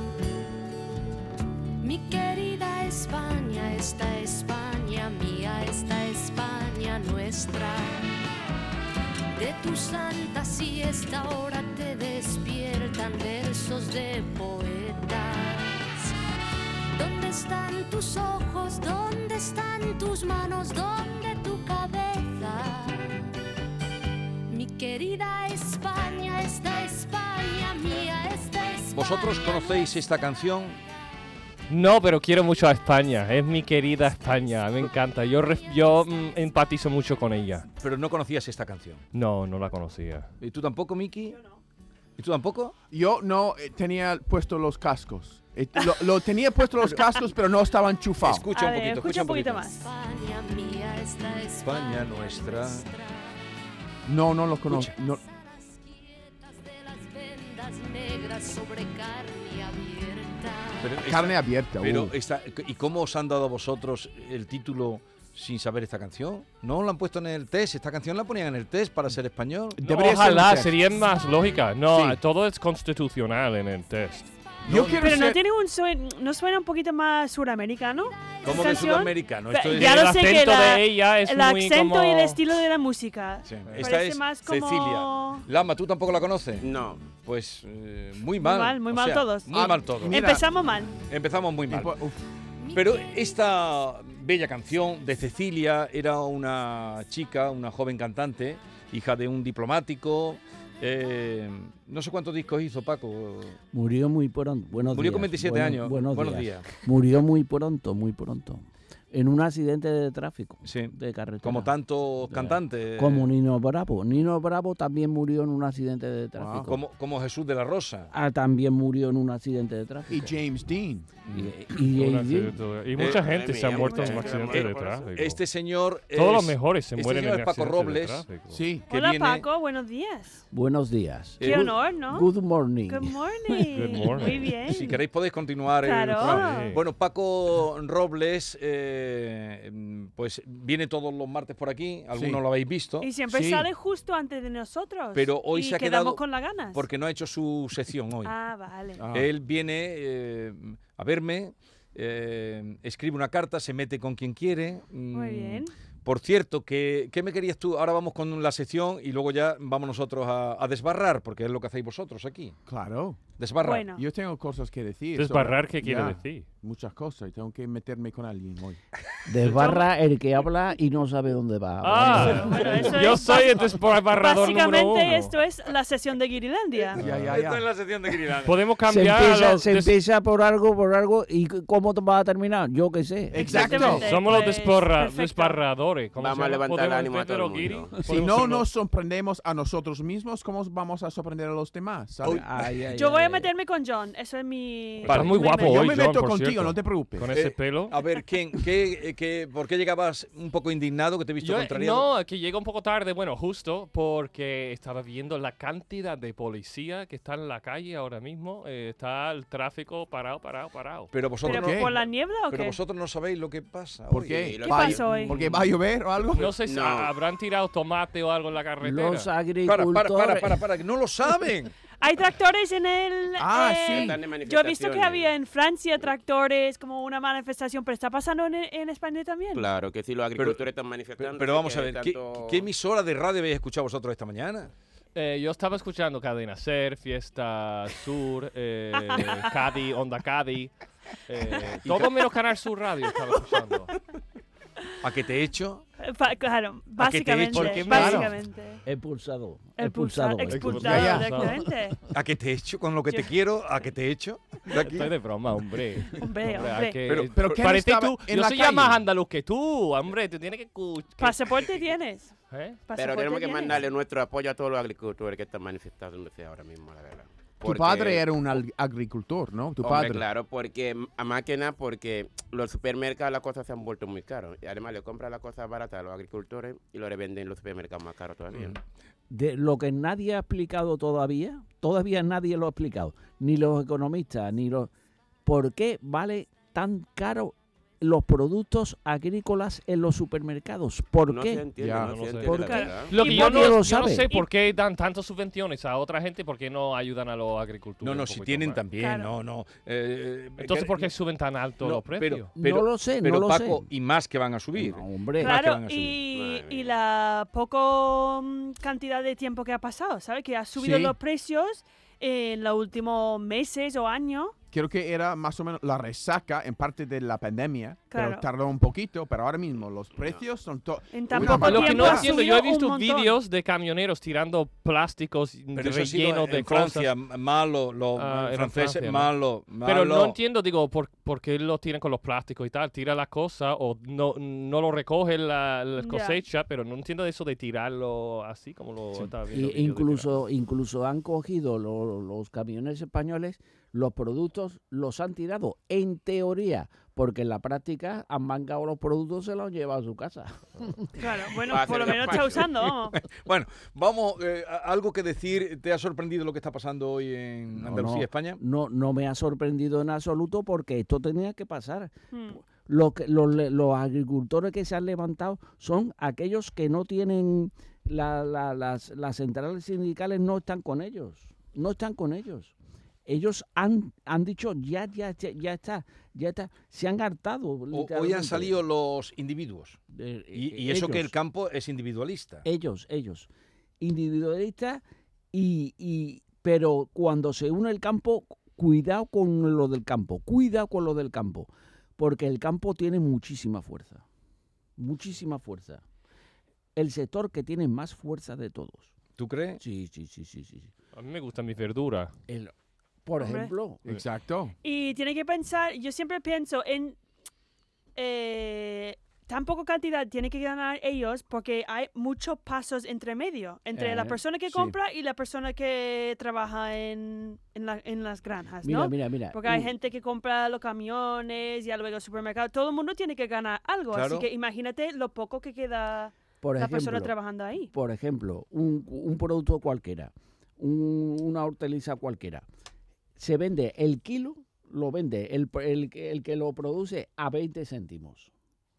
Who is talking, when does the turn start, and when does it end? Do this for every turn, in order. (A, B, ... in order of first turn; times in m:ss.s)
0:01.8-0:08.1 A
0:09.3-0:16.1 A
0:16.9-0:23.2 A
0:24.5-0:29.9 A
0:28.9-0:30.8 B
0:31.7-0:37.7 C
0:37.8-0:39.0 B
0:39.1-0:40.3 C
0:40.4-0:41.4 B
0:41.3-0:41.6 D
0:42.2-0:42.7 B
0:42.9-0:48.5 E
0:47.0-0:47.3 D
0:48.2-0:49.6 B
0:48.5-0:49.9 D
0:49.6-0:53.4 A
0:51.6-0:52.9 B
0:54.1-0:55.2 E
0:54.7-0:55.0 B
0:55.2-1:01.0 A
1:00.8-1:09.8 B
1:01.0-1:02.1 E
1:09.7-1:10.8 E
1:09.9-1:14.3 C
1:11.9-1:12.2 E
1:14.6-1:15.4 E
1:14.7-1:15.0 B
1:14.9-1:25.5 D
1:18.4-1:20.0 B
1:19.7-1:22.4 C
1:23.4-1:26.7 B
1:26.6-1:27.0 F
1:27.2-1:30.2 B
1:28.4-1:31.0 D
1:29.5-1:30.5 E
1:31.1-1:31.9 B
1:31.7-1:32.2 E
1:32.7-1:43.6 B
1:43.7-1:51.7 G
1:44.9-1:46.7 B
1:50.6-1:53.3 B
1:52.2-1:56.8 G
1:56.4-1:56.7 E
1:56.6-1:58.1 B
1:58.1-2:00.4 G
2:00.1-2:01.1 E
2:01.3-2:05.4 C
2:01.3-2:02.6 G
2:03.0-2:03.2 B
2:03.1-2:05.0 F
2:03.8-2:04.2 D
2:05.2-2:08.3 B
2:06.1-2:08.7 C
2:08.5-2:08.9 E
2:08.9-2:09.5 B
2:08.9-2:10.4 D
2:10.5-2:13.1 G
2:11.4-2:11.7 B
2:11.4-2:12.3 D
2:12.9-2:15.0 D
2:13.7-2:14.4 C
2:14.6-2:23.1 B
2:15.8-2:16.8 D
2:16.2-2:16.8 C
2:22.1-2:22.4 E
2:23.0-2:26.8 D
2:23.2-2:23.7 E
2:25.1-2:28.3 B
2:28.2-2:29.0 D
2:29.0-2:29.3 E
2:29.1-2:42.6 B
2:35.1-2:35.7 D
2:42.7-2:43.2 E
2:43.4-2:43.9 B
2:43.6-2:44.0 D
2:43.9-2:48.8 E
2:45.1-2:46.5 C
2:49.3-2:53.1 G
2:51.8-2:55.4 C
2:52.2-2:53.5 D
2:54.1-2:57.0 D
2:56.8-2:58.6 B
2:56.9-2:57.7 E
2:58.4-3:00.0 C
2:58.9-3:04.0 G
3:03.3-3:04.1 E
3:03.4-3:05.6 D
3:03.7-3:08.7 C
3:06.2-3:07.9 F
3:08.0-3:12.5 E
3:12.2-3:13.5 G
3:12.9-3:15.9 D
3:15.0-3:18.0 C
3:15.1-3:15.4 B
3:15.6-3:17.3 E
3:17.3-3:22.1 B
3:21.4-3:31.1 C
3:31.1-3:34.5 B
3:31.4-3:32.8 D
3:31.6-3:32.0 E
3:34.1-3:36.6 E
3:34.4-3:35.1 F
3:34.7-3:35.4 D
3:35.4-3:35.6 C
3:36.3-3:39.3 C
3:36.4-3:37.1 F
3:38.8-3:40.6 G
3:39.6-3:41.7 B
3:42.0-3:49.7 D
3:43.4-3:44.2 E
3:43.9-3:45.3 F
3:49.6-3:52.6 F
3:50.4-3:50.6 B
3:51.2-3:54.7 B
3:55.2-4:00.7 C
3:59.0-3:59.5 D
4:01.3-4:04.0 C
4:01.8-4:02.1 B
4:05.0-4:05.8 B
4:06.0-4:08.8 D
4:07.0-4:08.2 B
4:07.5-4:08.4 C
4:07.9-4:08.3 E
4:08.8-4:11.4 G
4:09.8-4:12.0 D
4:10.5-4:11.6 C
4:10.8-4:11.4 E
4:12.1-4:15.1 B
4:14.8-4:21.8 C
4:16.1-4:17.1 D
4:17.1-4:17.4 B
4:17.2-4:19.0 E
4:21.2-4:22.4 D
4:22.5-4:22.8 C
4:22.9-4:23.9 D
4:23.0-4:28.2 F
4:27.6-4:30.3 E
4:29.8-4:38.8 F
4:38.5-4:38.8 B
4:39.3-4:44.9 G
4:45.4-4:51.6 G
4:51.3-4:53.1 F
4:51.8-4:52.2 E
4:52.0-4:58.8 C
4:52.4-4:54.3 G
4:52.6-4:54.5 D
4:58.0-5:01.1 B
4:59.0-4:59.3 D
5:00.6-5:02.5 C
5:01.8-5:06.2 B
5:02.6-5:03.9 G
5:04.7-5:05.6 G
5:05.4-5:14.6 D
5:06.4-5:07.0 F
5:10.8-5:11.2 E
5:14.7-5:22.3 E
5:18.1-5:18.5 D
5:21.1-5:23.4 D
5:21.4-5:27.2 C
5:25.8-5:30.4 B
5:28.2-5:40.3 C
5:36.0-5:36.4 D
5:39.5-5:51.2 G
5:51.2-5:53.2 D
5:51.7-5:52.7 F
5:53.4-5:58.6 B
5:57.7-6:12.7 G
6:02.3-6:02.6 D
6:13.3-6:18.8 G
6:17.9-6:20.0 B
6:20.1-6:21.3 G
6:20.5-6:22.6 B
6:22.6-6:23.5 G
6:24.0-6:34.2 G
6:35.0-6:36.0 G
6:37.0-6:39.1 G
6:39.4-6:39.8 B
6:39.8-6:40.9 G
6:41.1-6:42.3 C
6:42.5-6:42.7 G
6:43.2-6:44.0 G
6:43.4-6:43.7 D
6:44.0-6:44.8 E
6:44.8-6:47.2 D
6:48.2-7:07.9 D
6:53.9-6:54.4 G
6:54.1-6:55.0 E
6:58.8-7:00.0 G
7:04.1-7:04.5 B
7:06.6-7:07.4 G
7:07.9-7:12.6 G
7:13.4-7:18.5 G